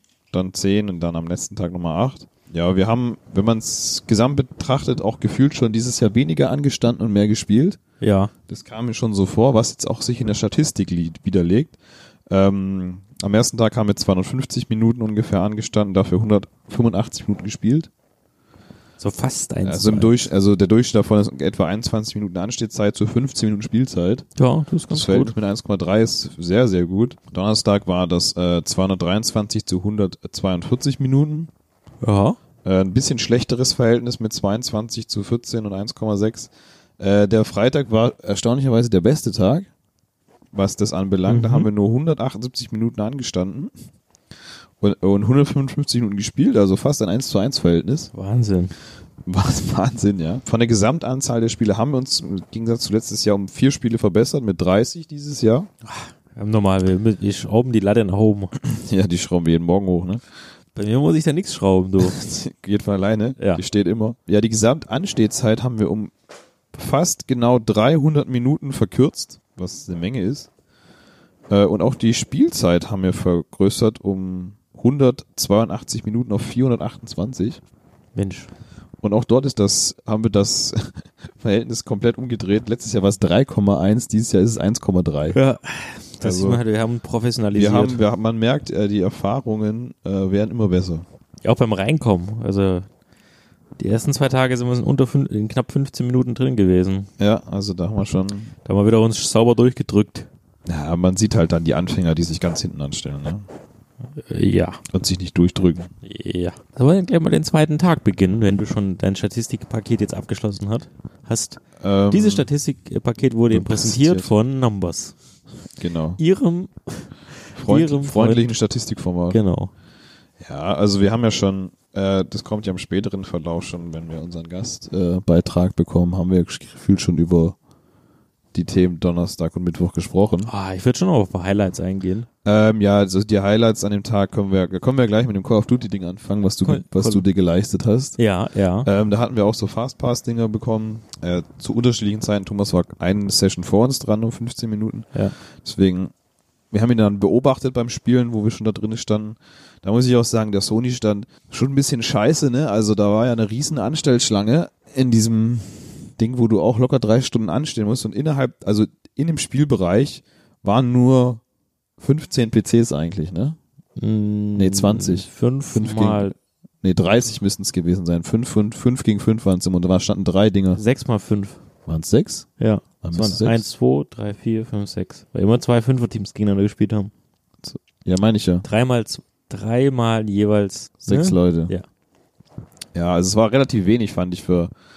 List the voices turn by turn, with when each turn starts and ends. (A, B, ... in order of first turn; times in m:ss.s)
0:00.3-0:07.8 A
0:08.0-0:08.3 B
0:08.5-0:11.8 A
0:12.3-0:17.9 A
0:19.0-0:20.2 B
0:19.6-0:24.3 A
0:24.4-0:25.3 B
0:24.9-0:31.5 A
0:32.0-0:32.4 B
0:32.6-0:39.7 A
0:40.5-0:43.7 A
0:41.3-0:41.7 B
0:44.8-0:48.1 A
0:48.1-0:48.7 B
0:49.3-0:55.7 A
0:55.8-0:58.5 B
0:58.6-1:00.2 A
1:00.7-1:02.2 B
1:02.0-1:06.1 A
1:06.7-1:10.5 A
1:11.5-1:17.6 A
1:18.2-1:18.5 B
1:19.0-1:25.4 A
1:25.3-1:28.0 B
1:26.2-1:26.6 A
1:27.6-1:31.0 A
1:31.4-1:32.9 B
1:33.8-1:37.1 B
1:37.2-1:38.5 A
1:38.6-1:40.3 B
1:40.6-1:43.4 A
1:44.3-1:44.8 B
1:44.9-1:45.9 A
1:46.0-1:55.1 B
1:51.8-1:52.5 A
1:53.5-1:54.3 A
1:55.8-1:56.2 A
1:56.2-1:58.5 B
1:57.6-1:59.4 A
1:59.3-1:59.7 B
2:00.4-2:07.6 A
2:08.5-2:10.5 A
2:10.5-2:12.3 B
2:12.4-2:18.2 A
2:16.6-2:17.2 B
2:18.2-2:18.9 B
2:18.8-2:25.1 A
2:25.6-2:26.1 A
2:26.7-2:41.4 A
2:42.0-2:43.6 A
2:44.0-2:46.3 B
2:44.6-2:50.8 A
2:50.7-2:51.6 B
2:51.9-2:52.5 A
2:52.6-2:57.1 B
2:53.0-2:53.6 A
2:57.6-2:58.6 A
2:58.6-3:01.8 B
3:01.1-3:01.7 A
3:02.9-3:04.7 A